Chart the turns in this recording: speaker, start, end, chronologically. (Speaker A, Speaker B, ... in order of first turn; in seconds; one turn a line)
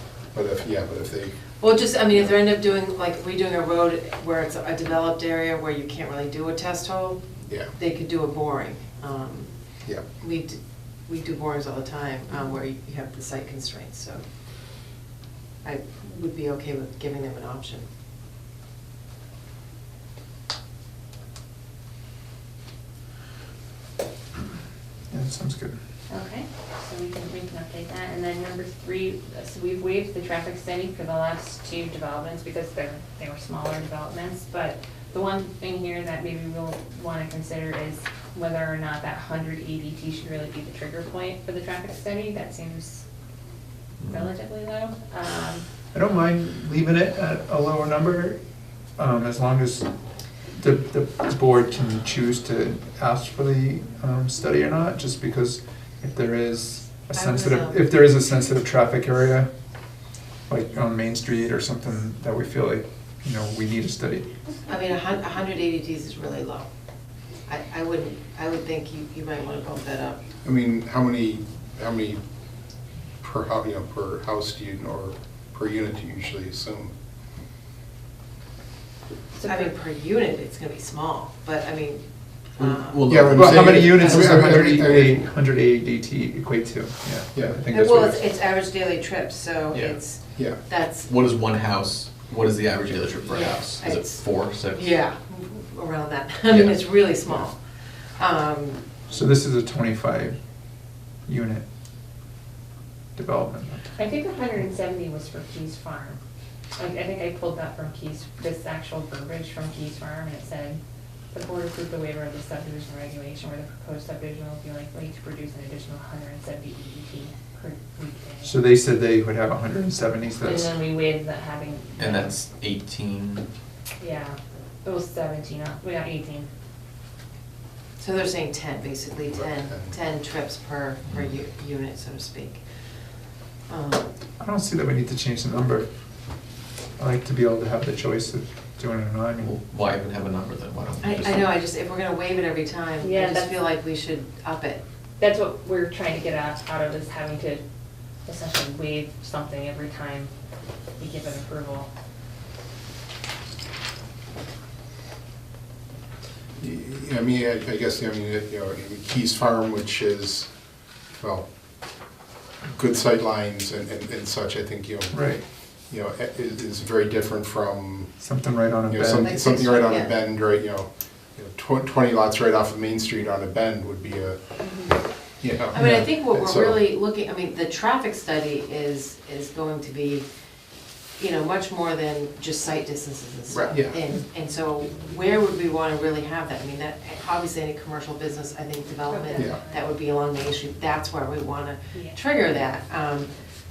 Speaker A: 0.3-1.3
Speaker B: 1.6-7.2
Speaker B: 7.8-9.5
Speaker B: 10.2-14.2
Speaker B: 15.6-17.8
Speaker C: 25.1-25.8
Speaker D: 26.1-43.0
Speaker D: 44.0-45.6
Speaker C: 45.9-48.4
Speaker C: 49.0-49.9
Speaker C: 50.5-59.5
Speaker B: 57.1-57.8
Speaker C: 60.5-64.3
Speaker B: 64.7-66.7
Speaker B: 67.5-70.2
Speaker A: 70.4-72.2
Speaker A: 73.2-76.9
Speaker D: 79.3-79.7
Speaker B: 79.4-82.0
Speaker B: 82.6-83.2
Speaker E: 82.6-83.9
Speaker A: 83.0-85.2
Speaker C: 83.3-88.2
Speaker B: 83.9-84.4
Speaker B: 87.7-91.1
Speaker E: 89.7-90.0
Speaker E: 91.0-94.9
Speaker B: 93.2-97.6
Speaker E: 96.5-96.8
Speaker B: 98.2-98.8
Speaker C: 99.1-100.4
Speaker C: 101.3-101.6
Speaker C: 103.2-103.9
Speaker D: 104.0-106.2
Speaker D: 106.8-110.8
Speaker D: 111.3-118.5
Speaker C: 118.4-120.7
Speaker D: 120.4-122.3
Speaker E: 122.0-123.5
Speaker D: 124.0-126.5
Speaker B: 128.0-132.6
Speaker A: 129.3-129.9
Speaker B: 133.7-134.1
Speaker C: 134.4-135.9
Speaker C: 137.0-139.5
Speaker E: 139.4-141.5
Speaker B: 141.0-144.8
Speaker D: 143.0-143.6
Speaker D: 145.2-147.6
Speaker D: 148.2-150.3
Speaker D: 151.0-151.9
Speaker A: 156.6-160.5
Speaker A: 161.2-161.4
Speaker A: 162.7-165.2
Speaker C: 165.1-165.4
Speaker A: 165.9-168.1
Speaker C: 168.2-169.6
Speaker A: 168.9-174.4
Speaker B: 169.2-170.2
Speaker D: 174.6-174.9
Speaker A: 175.4-176.8
Speaker B: 175.7-180.2
Speaker C: 175.8-176.1
Speaker B: 181.2-193.3
Speaker A: 183.6-184.0
Speaker D: 189.0-189.8
Speaker D: 191.9-192.2